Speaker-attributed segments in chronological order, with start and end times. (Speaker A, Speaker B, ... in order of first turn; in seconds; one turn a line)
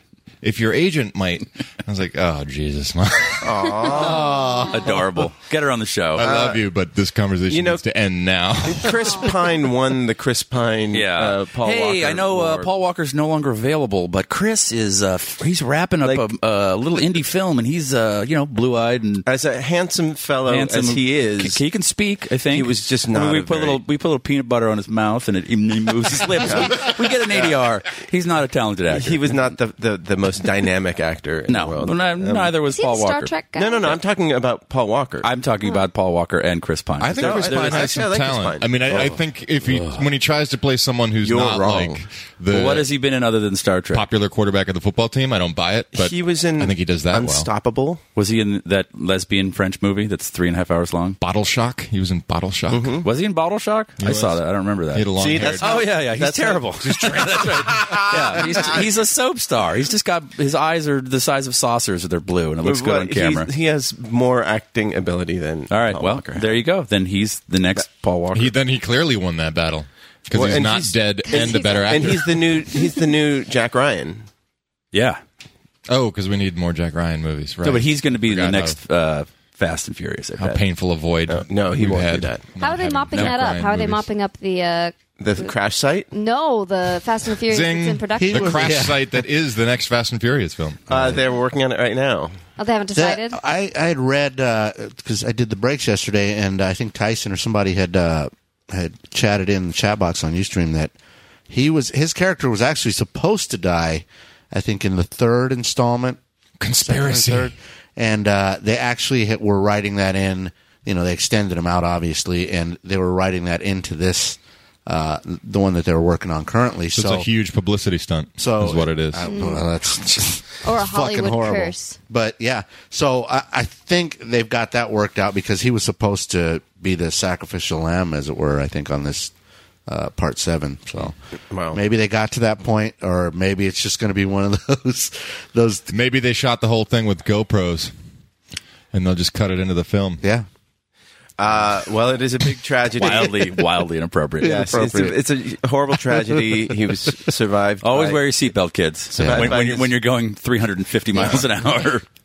Speaker A: 0.4-3.7
Speaker B: 3.4-4.7
Speaker C: 4.0-4.8
Speaker D: 4.7-6.3
Speaker A: 6.2-9.2
Speaker B: 6.2-6.7
Speaker B: 7.5-7.8
Speaker B: 8.6-12.7
Speaker D: 10.9-19.3
Speaker B: 19.3-21.6
Speaker D: 20.5-29.2
Speaker B: 22.5-23.8
Speaker B: 26.4-27.5
Speaker B: 28.9-32.5
Speaker D: 31.5-33.3
Speaker E: 32.8-34.0
Speaker B: 33.5-35.3
Speaker D: 35.2-38.0
Speaker A: 37.0-42.9
Speaker B: 37.1-39.1
Speaker D: 38.9-40.1
Speaker B: 41.2-42.0
Speaker D: 42.5-44.1
Speaker A: 43.9-47.5
Speaker B: 45.9-48.0
Speaker D: 48.2-51.2
Speaker A: 51.2-53.0
Speaker B: 52.7-53.1
Speaker D: 53.0-63.5
Speaker A: 54.0-54.4
Speaker A: 54.9-55.8
Speaker B: 55.2-58.9
Speaker B: 62.6-66.6
Speaker D: 65.7-68.5
Speaker A: 68.3-72.5
Speaker B: 70.3-74.3
Speaker E: 71.3-71.8
Speaker D: 74.9-75.2
Speaker A: 75.9-78.8
Speaker D: 77.6-80.6
Speaker A: 80.4-84.1
Speaker B: 81.3-82.5
Speaker E: 82.6-85.5
Speaker B: 85.2-86.1
Speaker E: 86.1-88.8
Speaker A: 87.5-90.8
Speaker C: 88.2-89.2
Speaker C: 90.9-91.2
Speaker B: 90.9-92.3
Speaker E: 92.6-93.4
Speaker C: 92.9-100.9
Speaker C: 101.5-106.2
Speaker A: 106.6-107.5
Speaker C: 106.8-117.3
Speaker A: 117.0-119.3
Speaker C: 118.4-129.3
Speaker E: 119.3-119.6
Speaker E: 120.6-122.0
Speaker C: 129.9-131.2
Speaker B: 131.5-131.8
Speaker C: 131.7-135.9
Speaker A: 135.9-137.9
Speaker A: 138.9-140.2
Speaker B: 141.4-143.4
Speaker D: 143.0-145.1
Speaker C: 144.4-145.2
Speaker B: 144.4-148.2
Speaker C: 146.1-146.4
Speaker D: 147.8-152.1
Speaker B: 149.1-149.9
Speaker C: 149.2-149.6